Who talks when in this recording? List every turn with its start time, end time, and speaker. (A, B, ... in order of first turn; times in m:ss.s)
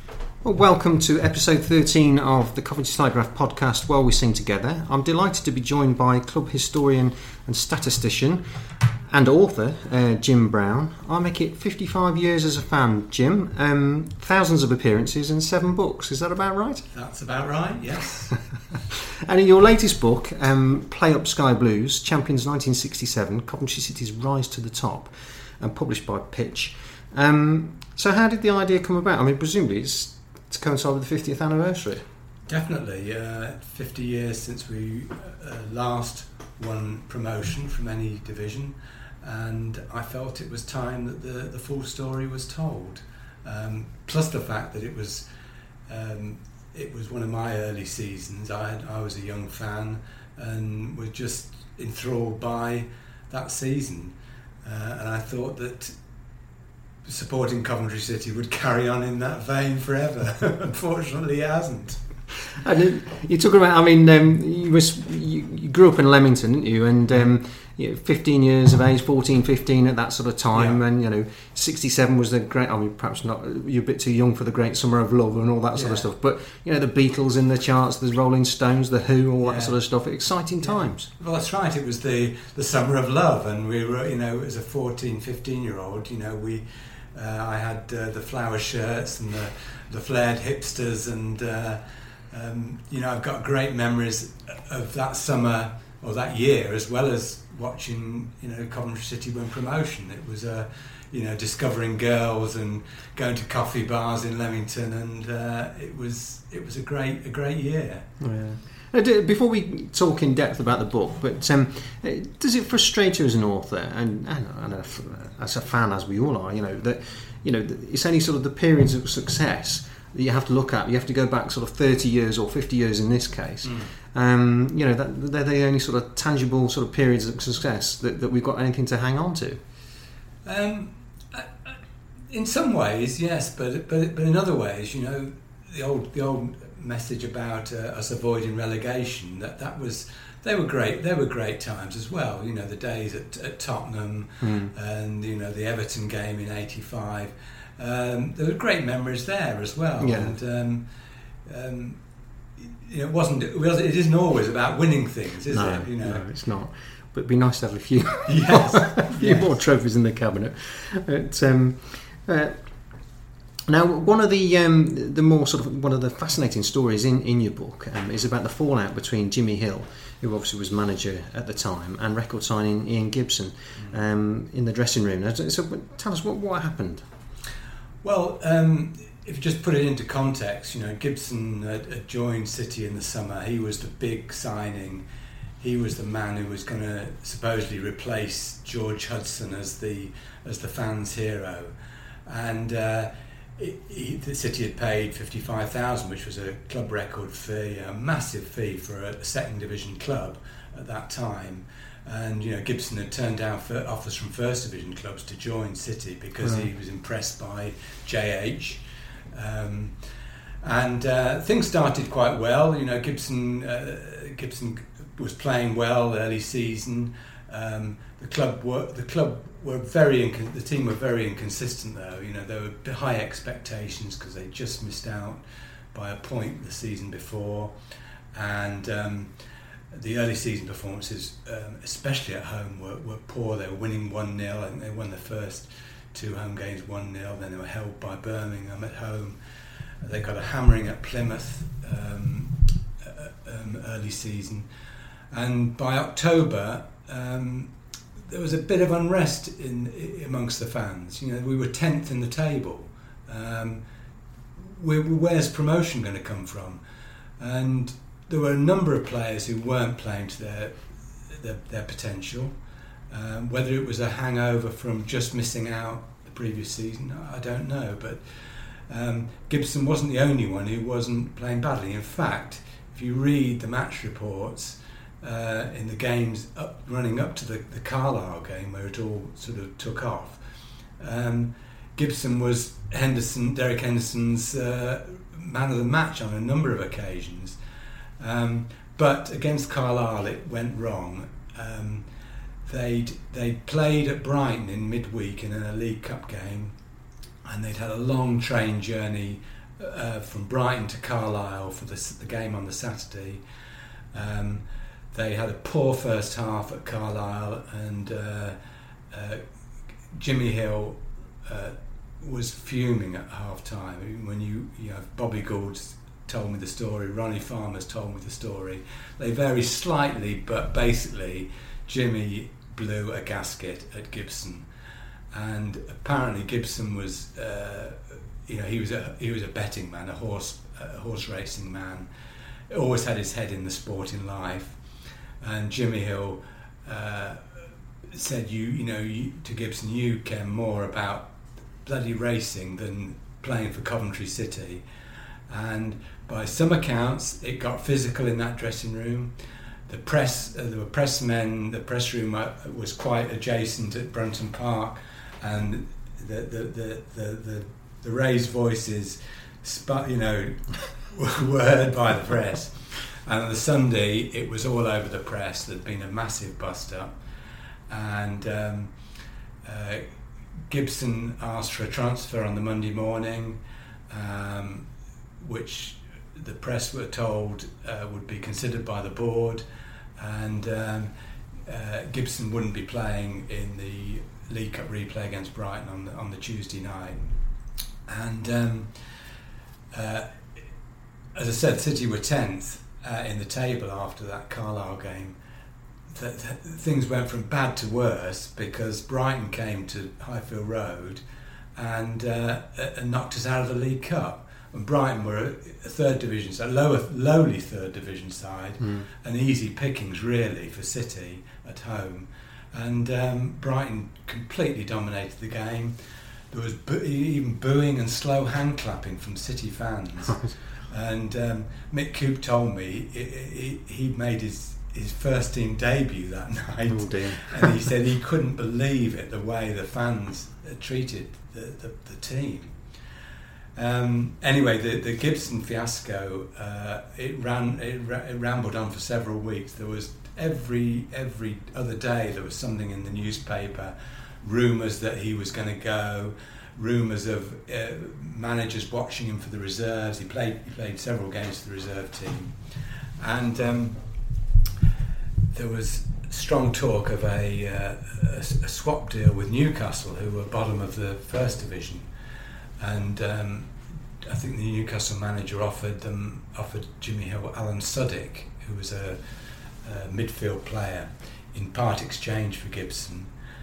0:00.4-0:08.4 A
0:09.1-0:16.9 A
0:16.9-0:18.3 B
0:19.2-0:32.0 A
0:32.5-0:45.3 B
0:45.9-0:56.0 B
0:57.0-1:02.0 B
1:02.6-1:21.1 A
1:10.5-1:10.8 B
1:15.7-1:16.1 B
1:19.4-1:19.8 B
1:20.6-1:48.1 B
1:48.2-2:09.6 A
2:03.6-2:03.9 B
2:10.4-2:11.8 B
2:12.3-2:30.9 B
2:24.4-2:24.7 A
2:30.0-2:30.4 A
2:31.4-2:32.0 B
2:32.6-2:36.2 B
2:35.5-2:42.6 A
2:38.3-2:39.6 B
2:43.7-2:57.1 A
2:58.0-3:05.0 B
3:05.6-3:11.7 B
3:12.3-3:30.0 B
3:26.4-3:26.7 A
3:30.6-3:45.4 B
3:45.9-3:47.8 B
3:48.3-3:49.3 B
3:49.9-3:59.4 B
4:00.0-4:04.7 B
4:05.3-4:13.8 B
4:14.6-4:16.8 B
4:17.4-4:22.5 B
4:23.1-4:40.4 B
4:41.0-4:47.6 B
4:48.2-4:52.1 B
4:52.6-4:56.8 B
4:57.4-5:03.4 B
5:04.1-5:08.6 B
5:09.1-5:09.4 B
5:10.1-5:24.7 B
5:25.3-5:32.1 B
5:32.7-5:34.8 B
5:35.4-5:41.3 B
5:41.8-5:44.8 B
5:45.5-5:49.3 B
5:49.9-6:07.2 B
6:07.9-6:08.9 B
6:09.6-6:10.1 B
6:10.7-6:14.9 B
6:15.4-6:19.6 B
6:20.2-6:21.1 B
6:21.6-6:27.3 B
6:28.1-6:29.2 B
6:29.9-6:30.3 B
6:31.4-6:35.4 B
6:36.1-6:41.2 B
6:41.8-6:55.9 B
6:48.8-6:49.1 A
6:56.5-7:12.8 B
7:00.3-7:00.6 A
7:06.9-7:07.7 A
7:13.8-7:34.0 B
7:35.5-7:42.1 B
7:42.8-7:49.2 B
7:49.8-7:53.3 B